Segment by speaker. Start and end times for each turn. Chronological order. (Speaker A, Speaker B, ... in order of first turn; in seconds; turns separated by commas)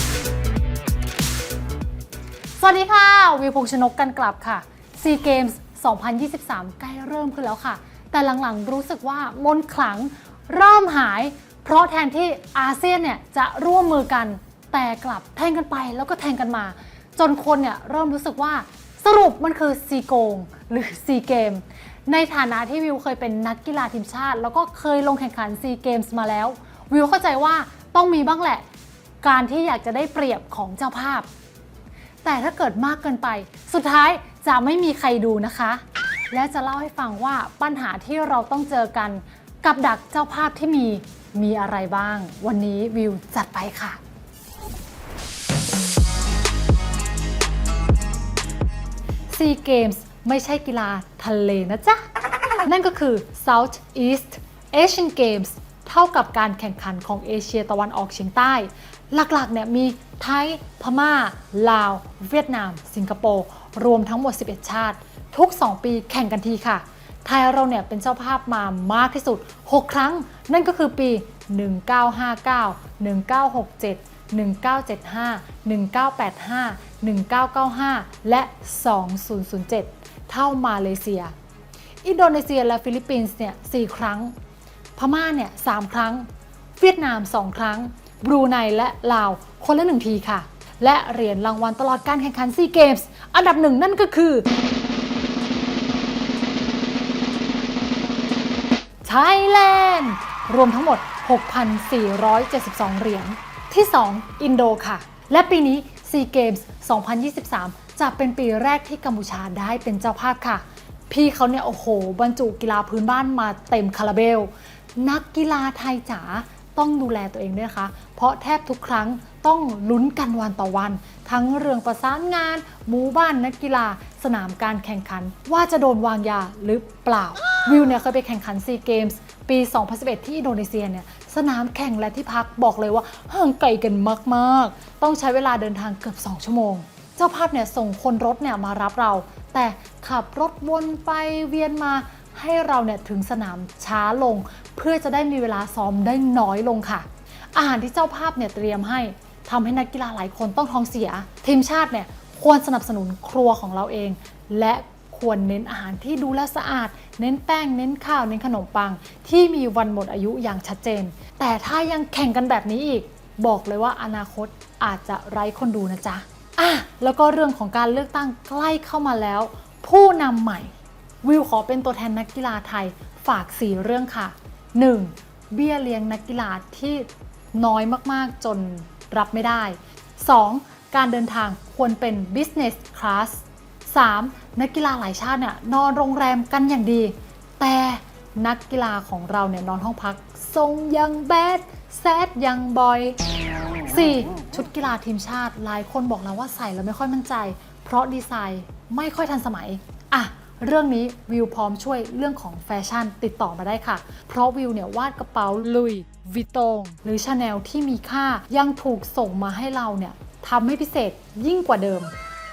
Speaker A: 2.6-28.6, Speaker A: 29.2-31.3, Speaker A: 32.2-44.0, Speaker A: 49.3-52.0, Speaker A: 52.6-81.3, Speaker A: 82.0-84.3, Speaker A: 85.0-86.3, Speaker A: 86.8-94.5, Speaker A: 99.0-193.2, Speaker A: 193.9-212.1